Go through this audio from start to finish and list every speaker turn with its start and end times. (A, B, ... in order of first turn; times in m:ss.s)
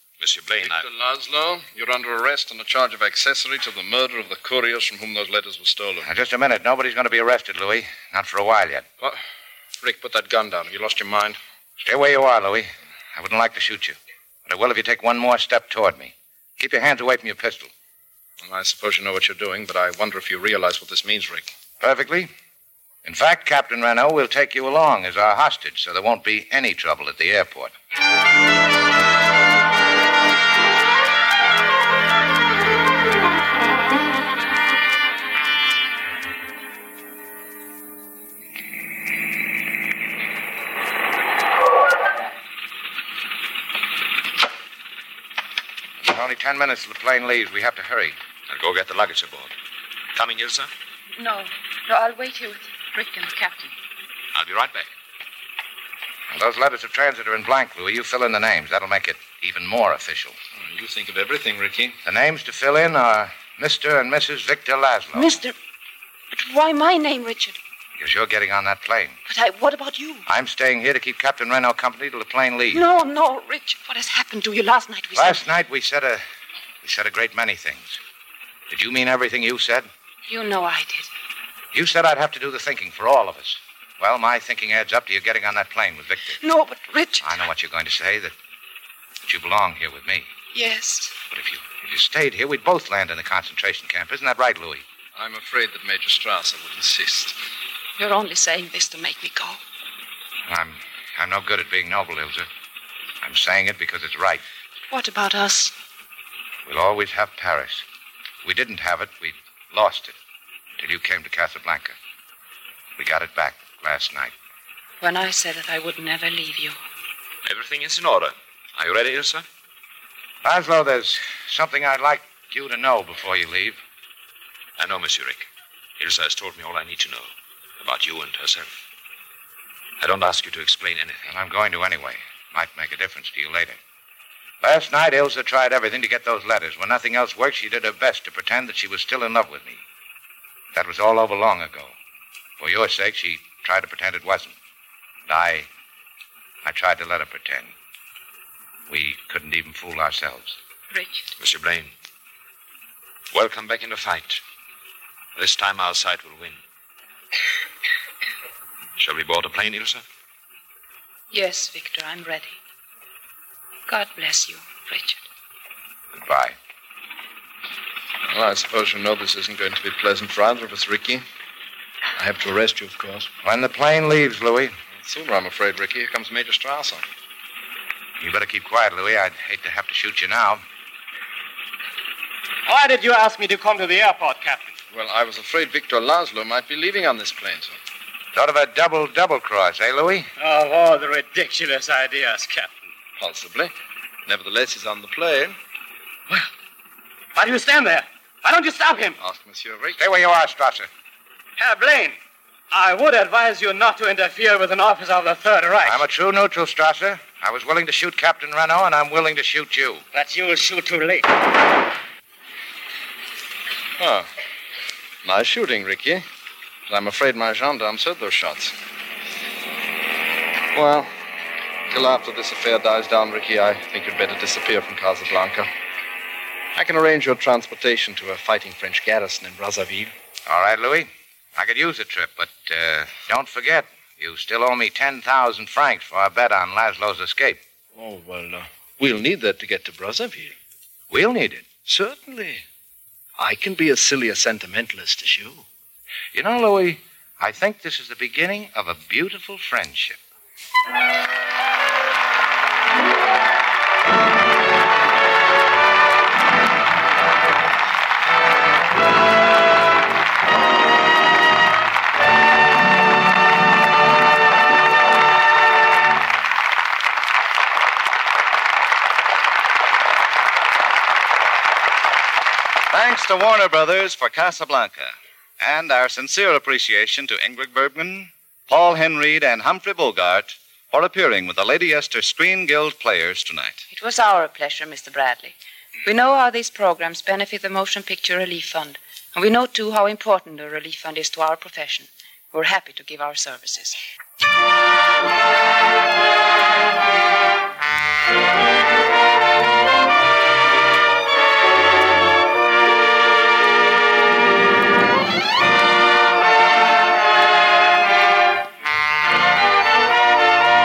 0:00.2-0:00.8 A
0:00.6-0:06.1 B
0:06.0-0:08.9 C
0:09.8-0:11.4 B
0:11.8-0:17.7 C
0:18.4-0:21.5 B
0:21.8-0:22.3 C
0:23.0-0:27.7 C
0:46.0-0:48.2 C
0:48.5-0:49.5 A
0:50.2-0:50.7 A
0:51.2-0:53.7 D
0:54.4-0:54.9 A
0:56.3-1:00.4 C
1:00.6-1:02.0 B
1:02.0-1:05.4 C
1:05.2-1:05.6 D
1:06.3-1:07.6 D
1:08.0-1:09.2 C
1:09.3-1:10.2 D
1:10.3-1:12.8 C
1:12.7-1:15.4 D
1:15.2-1:16.2 C
1:16.8-1:18.0 C
1:18.7-1:19.9 C
1:20.3-1:21.1 D
1:21.7-1:26.4 C
1:26.4-1:27.3 D
1:27.2-1:28.4 C
1:29.2-1:30.3 C
1:30.5-1:31.2 D
1:31.3-1:34.8 C
1:35.2-1:37.4 B
1:38.0-1:39.6 D
1:40.5-1:42.5 C
1:43.2-1:44.4 C
1:44.9-1:45.8 D
1:46.7-1:47.8 C
1:48.4-1:50.2 C
1:50.8-1:52.0 C
1:53.0-1:54.3 C
1:55.0-1:56.8 D
1:57.4-1:59.5 A
2:00.4-2:03.8 C
2:04.8-2:05.5 A
2:06.0-2:08.8 A
2:10.0-2:11.2 A
2:11.3-2:13.8 C
2:14.6-2:19.8 C
2:20.7-2:22.0 C
2:22.6-2:24.6 C
2:25.3-2:25.7 C
2:26.6-2:27.7 C
2:28.9-2:30.6 C
2:30.9-2:31.3 D
2:31.4-2:31.9 A
2:33.3-2:34.4 A
2:35.4-2:36.6 A
2:39.0-2:40.0 A
2:41.3-2:42.6 D
2:43.9-2:45.2 D
2:46.2-2:46.6 C
2:48.3-2:51.2 B
2:52.2-2:53.3 B
2:53.4-2:54.7 C
2:55.0-2:57.0 B
2:58.2-3:00.6 C
3:02.7-3:04.8 E
3:04.9-3:07.8 B
3:08.3-3:10.3 C
3:10.4-3:12.7 E
3:13.2-3:13.7 B
3:14.3-3:15.6 B
3:17.4-3:19.2 E
3:19.2-3:20.0 B
3:20.0-3:20.9 C
3:21.6-3:22.2 E
3:22.7-3:26.1 E
3:25.8-3:30.0 C
3:30.1-3:31.2 E
3:34.0-3:34.3 B
3:35.2-3:36.3 B
3:36.9-3:38.8 B
3:40.7-3:41.1 B
3:41.9-3:45.7 B
3:46.8-3:50.1 B
3:50.5-3:57.6 C
3:58.0-4:00.6 B
4:01.1-4:01.7 C
4:01.8-4:02.6 B
4:03.4-4:05.6 B
4:06.3-4:10.2 C
4:32.9-4:43.8 F
4:43.9-4:54.0 D